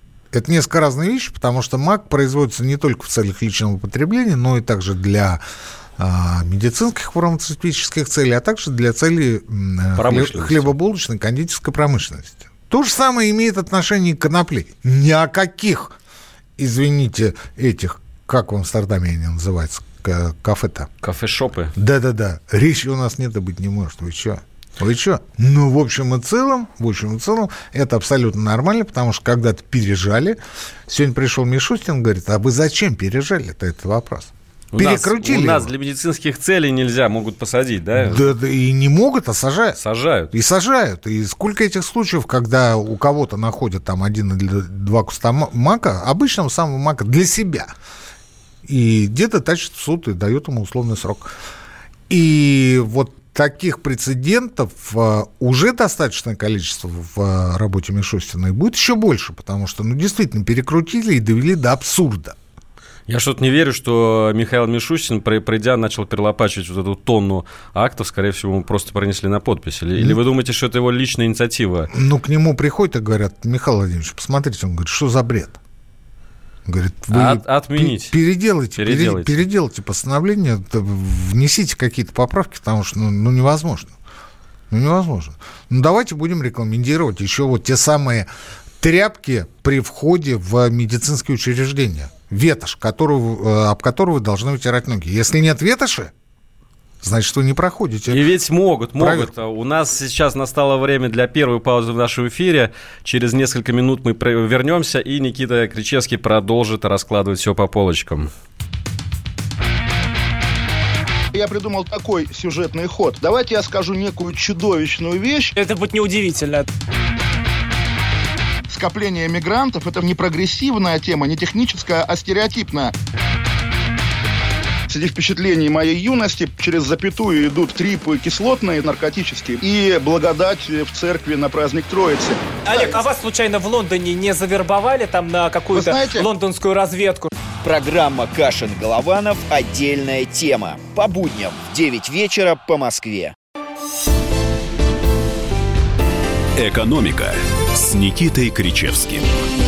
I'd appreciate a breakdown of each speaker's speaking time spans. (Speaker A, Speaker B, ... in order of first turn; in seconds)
Speaker A: 0.3-5.4, 6.0-15.9, 16.6-20.9, 21.8-35.7, 37.9-39.8, 40.3-47.7, 48.6-51.3, 52.1-62.4, 71.9-75.6, 76.7-83.9, 84.7-88.3, 88.8-96.1, 97.0-98.2, 99.0-99.3
Speaker B: 9.9-10.7, 21.0-21.7, 34.7-38.3, 39.7-40.3, 63.1-71.9, 77.1-78.1, 78.8-79.5, 98.1-108.3
Speaker C: 111.3-115.5, 118.7-122.9, 124.9-133.0, 135.7-136.3
Speaker D: 115.5-116.7, 132.7-137.3
Speaker E: 137.6-143.3
Speaker F: 146.6-149.4